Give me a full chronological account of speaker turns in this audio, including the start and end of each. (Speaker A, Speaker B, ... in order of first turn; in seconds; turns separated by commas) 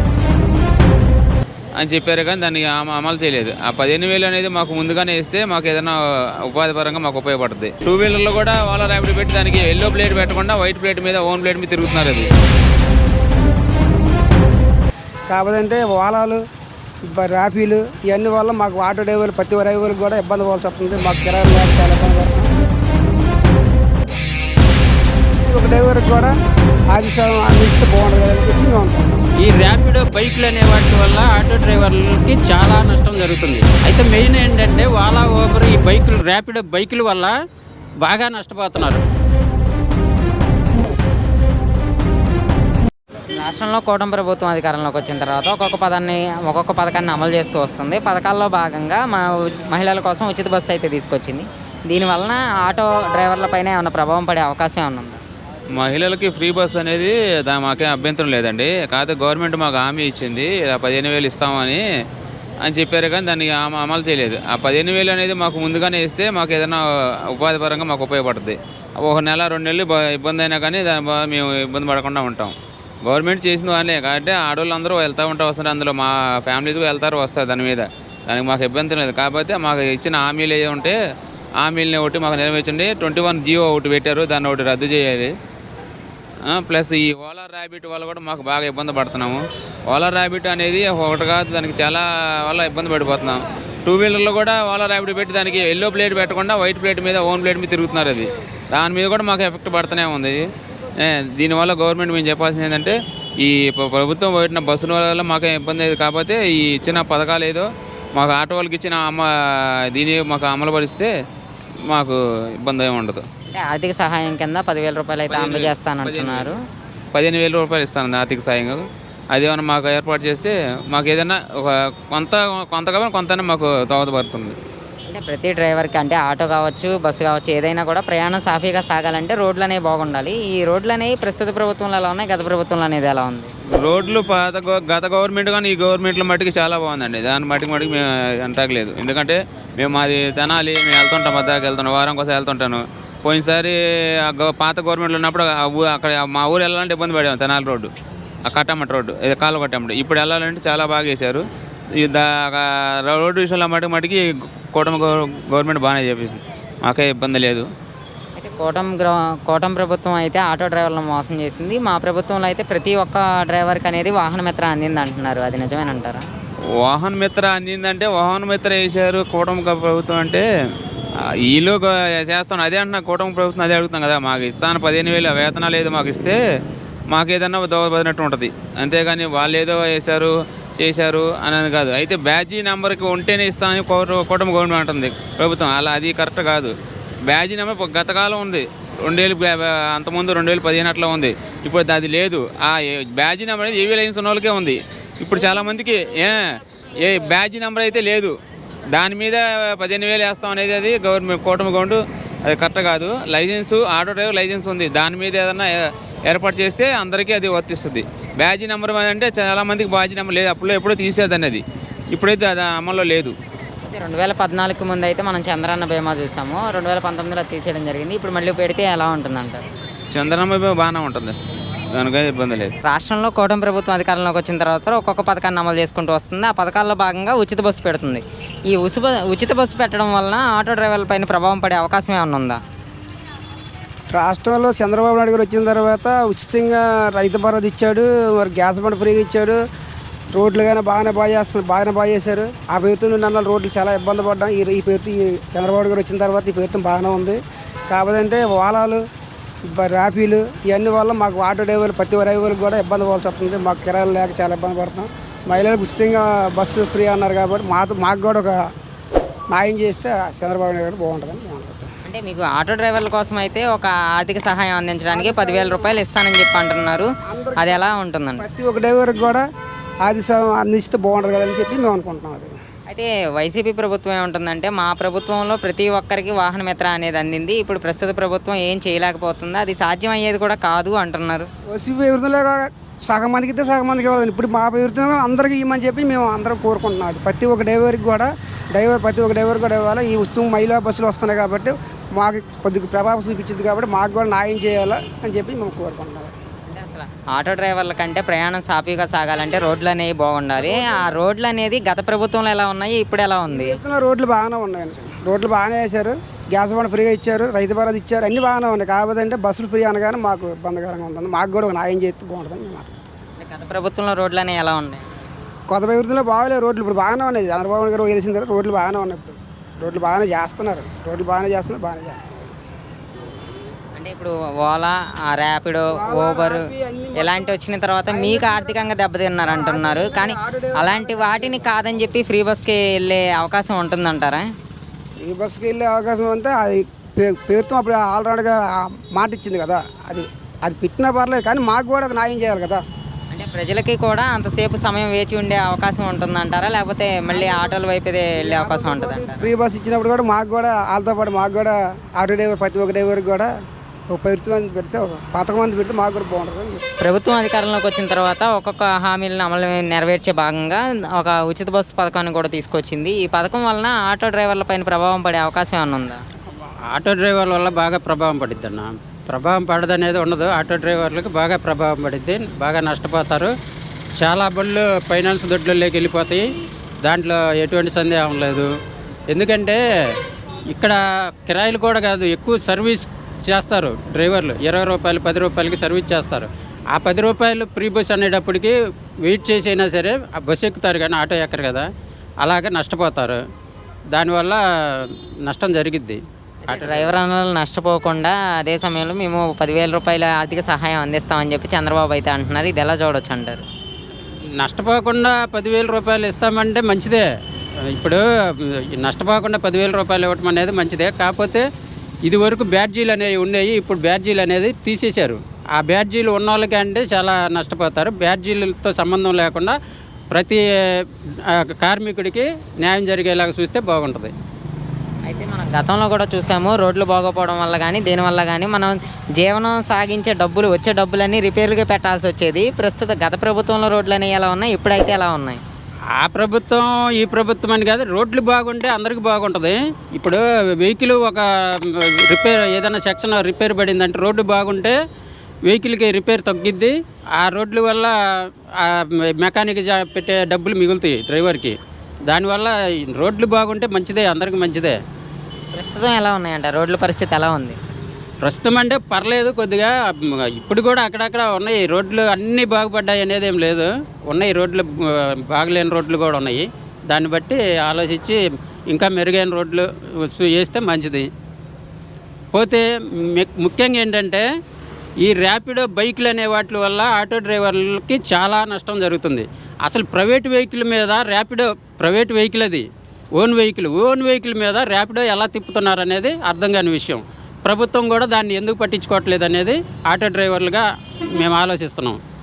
Speaker A: 1.8-12.3, Speaker B: 15.3-16.4, Speaker B: 17.1-22.5, Speaker B: 25.4-26.3, Speaker B: 26.9-29.2, Speaker C: 29.4-37.4, Speaker C: 38.0-39.0, Speaker D: 43.4-55.2, Speaker A: 55.8-61.8, Speaker A: 62.6-81.0, Speaker A: 81.6-85.3, Speaker A: 86.5-100.5, Speaker A: 101.0-111.1, Speaker A: 111.9-113.2, Speaker D: 113.5-116.5, Speaker A: 115.3-116.5, Speaker A: 117.1-124.6, Speaker D: 125.1-133.5, Speaker A: 133.8-147.9, Speaker A: 148.5-151.4, Speaker A: 152.0-157.7, Speaker D: 158.4-166.2, Speaker A: 166.8-170.4, Speaker A: 171.4-176.4, Speaker A: 177.1-186.7, Speaker A: 187.3-196.4, Speaker A: 197.0-198.3, Speaker A: 198.9-213.3, Speaker D: 213.8-219.6, Speaker A: 220.1-221.4, Speaker A: 221.9-222.7, Speaker D: 222.8-232.6, Speaker B: 234.1-239.6, Speaker B: 240.3-249.1, Speaker B: 249.7-258.6, Speaker B: 259.5-261.9, Speaker D: 262.1-267.1, Speaker B: 265.1-266.0, Speaker B: 267.3-269.4, Speaker D: 267.6-268.5, Speaker B: 270.0-272.6, Speaker D: 272.9-281.5, Speaker B: 281.7-296.3, Speaker D: 296.7-303.8, Speaker B: 300.6-301.1, Speaker B: 303.5-313.0, Speaker D: 313.4-315.1, Speaker B: 315.7-322.5, Speaker D: 324.0-326.7, Speaker B: 325.9-327.6, Speaker D: 327.2-334.5, Speaker B: 328.1-328.9, Speaker B: 329.5-332.2, Speaker B: 335.2-342.8, Speaker D: 343.3-349.5, Speaker B: 347.3-353.5, Speaker B: 354.1-356.9, Speaker D: 357.0-366.2, Speaker C: 366.9-373.5, Speaker C: 374.2-376.4, Speaker C: 377.0-378.7, Speaker C: 379.3-379.8, Speaker C: 380.7-391.9, Speaker C: 392.4-393.4, Speaker C: 394.1-397.2, Speaker D: 396.6-403.6, Speaker C: 404.6-407.2, Speaker C: 408.0-411.6, Speaker C: 412.2-419.8, Speaker C: 420.3-420.6, Speaker C: 421.5-424.3, Speaker D: 425.2-435.6, Speaker C: 436.2-445.0, Speaker C: 445.7-448.1, Speaker C: 448.8-451.8, Speaker C: 452.3-455.0, Speaker D: 455.7-457.8, Speaker C: 458.4-468.4, Speaker C: 468.9-471.3, Speaker C: 472.5-474.4, Speaker C: 475.2-490.9, Speaker C: 491.4-492.2